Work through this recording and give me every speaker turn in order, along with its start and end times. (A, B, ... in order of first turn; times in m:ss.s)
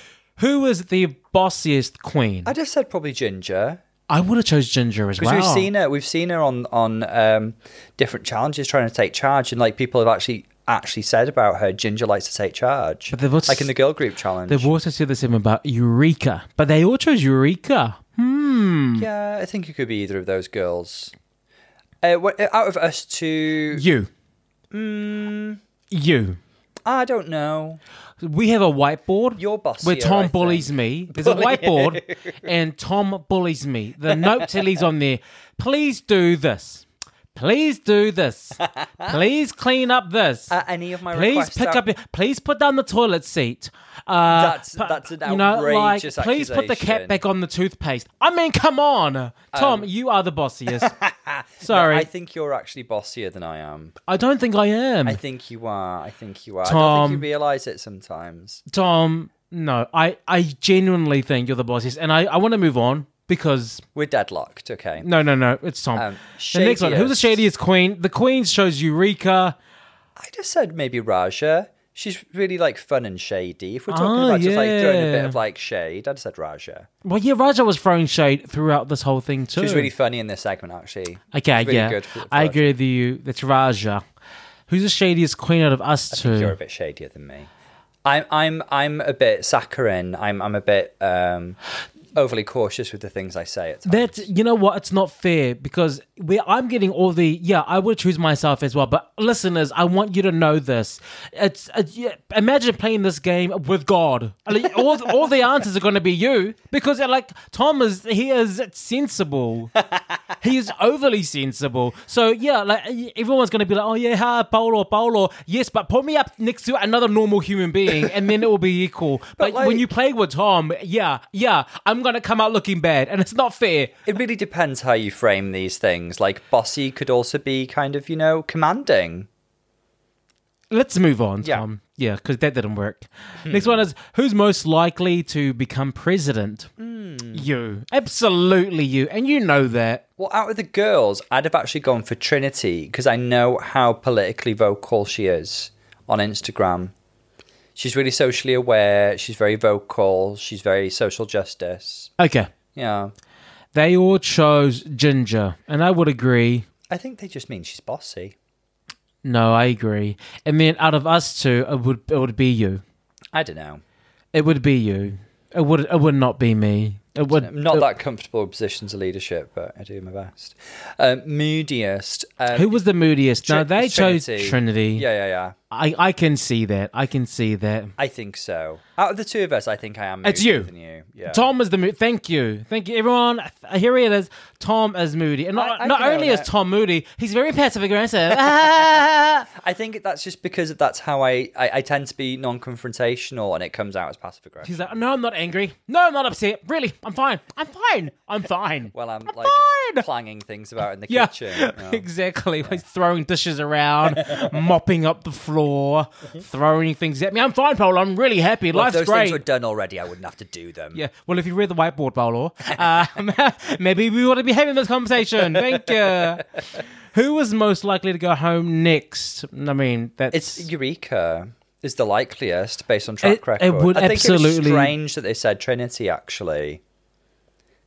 0:00.4-0:02.5 A
0:02.4-0:03.8 B
0:04.1-0:05.7 A
0:05.2-0:14.7 B
0:13.1-0:13.7 A
0:14.5-0:19.1 A
0:19.0-0:21.1 B
0:22.0-0:23.8 B
0:23.7-0:24.1 A
0:24.7-0:25.6 B
0:25.9-0:26.4 A
0:26.8-0:27.8 B
0:28.2-0:40.5 A
0:29.4-0:32.3 B
0:34.1-0:34.6 B
0:38.6-0:39.2 B
0:40.5-0:41.8 B
0:41.1-0:50.9 A
0:44.3-0:47.2 B
0:49.5-0:49.9 B
0:50.7-0:53.9 B
0:51.6-0:52.1 A
0:54.1-0:55.2 A
0:55.0-0:58.6 B
0:56.6-0:57.2 A
0:58.7-1:03.8 A
1:04.0-1:05.1 B
1:05.0-1:09.6 A
1:05.9-1:07.4 B
1:10.2-1:16.9 B
1:13.9-1:15.4 A
1:17.0-1:19.9 A
1:19.6-1:22.7 B
1:21.3-1:24.0 A
1:24.7-1:26.5 A
1:26.1-1:27.5 B
1:28.0-1:31.6 B
1:32.1-1:34.3 B
1:33.8-1:49.8 A
1:50.4-2:03.9 A
1:59.4-1:59.8 B
2:04.0-2:09.3 B
2:10.7-2:16.7 A
2:13.4-2:13.8 B
2:16.8-2:17.5 B
2:17.3-2:20.0 A
2:20.2-2:26.9 B
2:27.8-2:32.1 B
2:32.2-2:32.5 A
2:32.7-2:33.1 B
2:33.7-2:36.6 A
2:36.9-2:38.3 B
2:39.2-2:42.8 A
2:43.3-2:43.8 B
2:44.3-2:47.9 A
2:47.3-2:52.8 B
2:52.5-2:55.0 A
2:53.4-2:55.5 B
2:55.7-2:57.9 A
2:58.0-3:01.4 B
3:00.2-3:00.7 A
3:01.3-3:09.5 A
3:05.6-3:06.5 B
3:09.5-3:14.9 B
3:14.6-3:20.0 A
3:18.9-3:22.0 B
3:21.1-3:29.4 A
3:24.1-3:24.5 B
3:28.7-3:31.0 B
3:30.9-3:40.7 A
3:35.6-3:35.9 B
3:40.3-3:46.8 B
3:43.2-3:44.9 A